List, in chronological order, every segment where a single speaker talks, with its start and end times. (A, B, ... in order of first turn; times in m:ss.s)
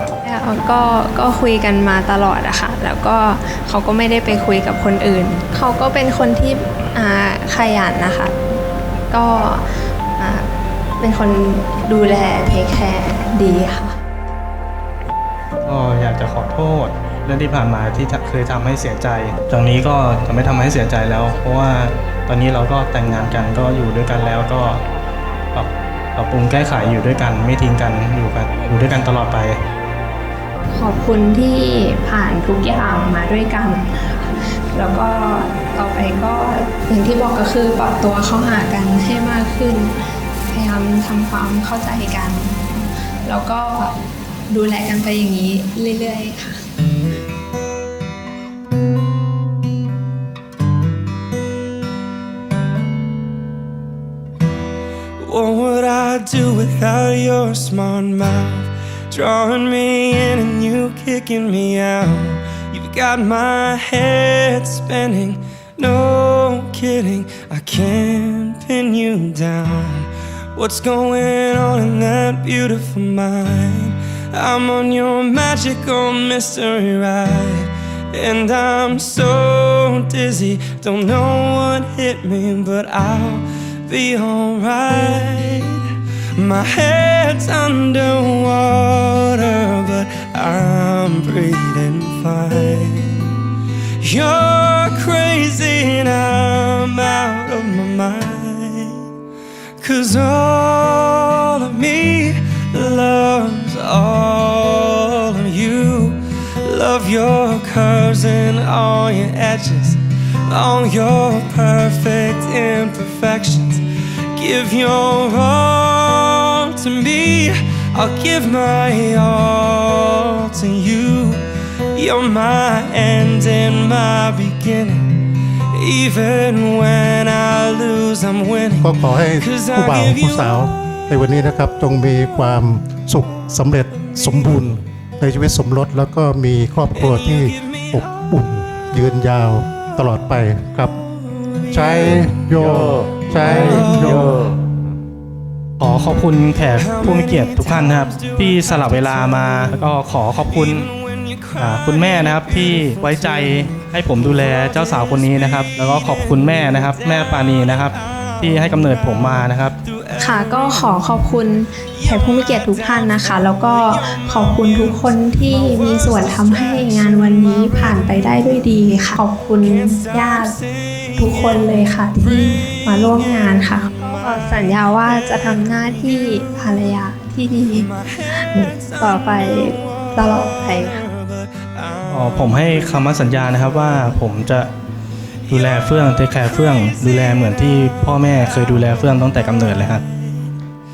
0:00.2-0:08.4 A
0:09.1-0:09.6 A
0:10.2-0:10.5 A
0:11.0-0:14.0 A
0:15.6-0:24.9 B
0:25.5-0:29.6 B
0:30.7-0:39.9 A
0:40.5-0:43.9 A
0:44.5-0:46.6 A
0:55.2-1:33.4 C
1:34.0-1:39.1 C
1:39.8-2:11.1 C
2:08.8-2:21.0 D
2:17.0-2:18.3 C
2:21.3-2:24.4 C
2:21.7-2:24.5 D
2:25.8-2:30.9 B
2:26.8-2:41.4 C
2:31.6-2:39.8 B
2:40.2-2:50.6 A
2:41.9-2:48.6 C
2:49.7-2:51.6 C
2:51.2-3:01.0 A
2:52.7-2:56.8 C
2:57.7-3:04.0 C
3:02.1-3:04.7 B
3:05.5-3:10.0 B
3:06.5-3:10.5 C